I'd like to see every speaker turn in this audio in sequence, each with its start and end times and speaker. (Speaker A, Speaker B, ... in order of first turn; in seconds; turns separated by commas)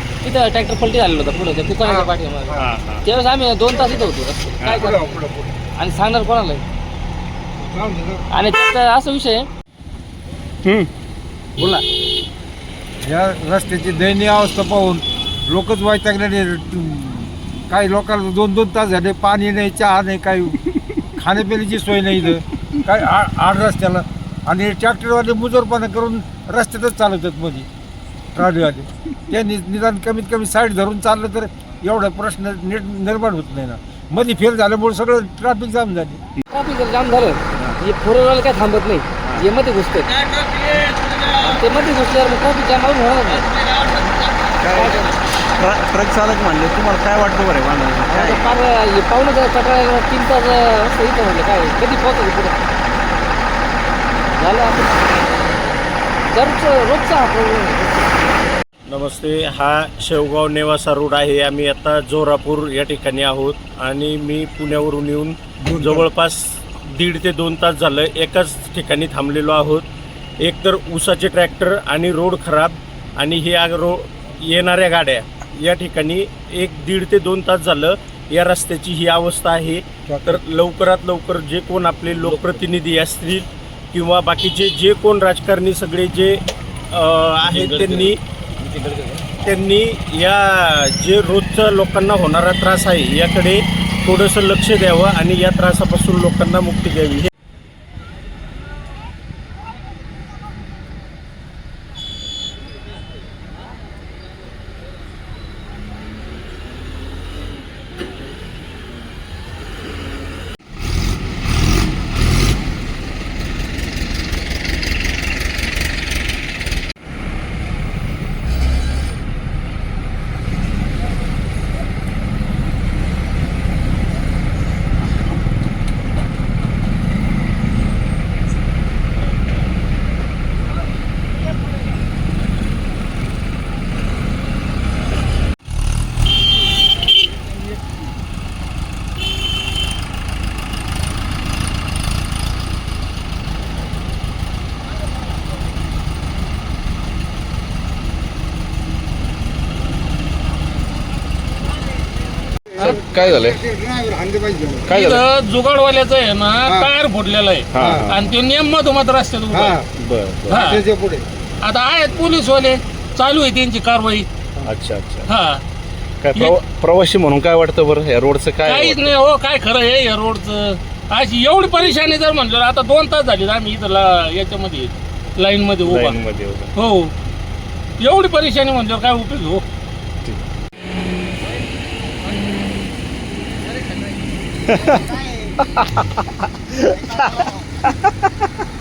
Speaker A: 0.2-5.0, Speaker B: 2.5-3.0, Speaker C: 4.6-5.5, Speaker A: 5.8-6.6, Speaker C: 7.6-8.2, Speaker A: 8.3-9.5, Speaker B: 10.6-10.9, Speaker C: 13.0-20.6, Speaker C: 21.1-27.7, Speaker C: 28.3-36.2, Speaker A: 36.5-40.1, Speaker D: 40.1-41.6, Speaker A: 41.4-43.5, Speaker D: 43.3-44.7, Speaker E: 44.6-48.5, Speaker A: 44.7-45.1, Speaker A: 48.1-52.5, Speaker A: 54.3-55.0, Speaker A: 56.3-58.1, Speaker F: 58.9-69.8, Speaker C: 65.6-66.0, Speaker F: 70.4-86.4, Speaker C: 80.1-80.4, Speaker E: 82.2-82.7, Speaker F: 86.9-88.2, Speaker E: 87.4-89.3, Speaker F: 89.4-97.3, Speaker C: 152.7-154.9, Speaker B: 152.9-153.6, Speaker B: 154.9-155.3, Speaker D: 154.9-159.8, Speaker B: 157.7-158.3, Speaker C: 157.8-158.1, Speaker C: 159.5-159.8, Speaker B: 159.9-160.6, Speaker D: 160.5-160.8, Speaker C: 160.5-161.2, Speaker D: 161.6-164.3, Speaker B: 164.6-165.3, Speaker D: 165.3-165.6, Speaker B: 166.2-169.1, Speaker D: 168.6-176.2, Speaker B: 175.8-176.7, Speaker D: 176.8-177.1, Speaker D: 178.0-179.6, Speaker B: 184.7-186.0, Speaker B: 186.7-187.5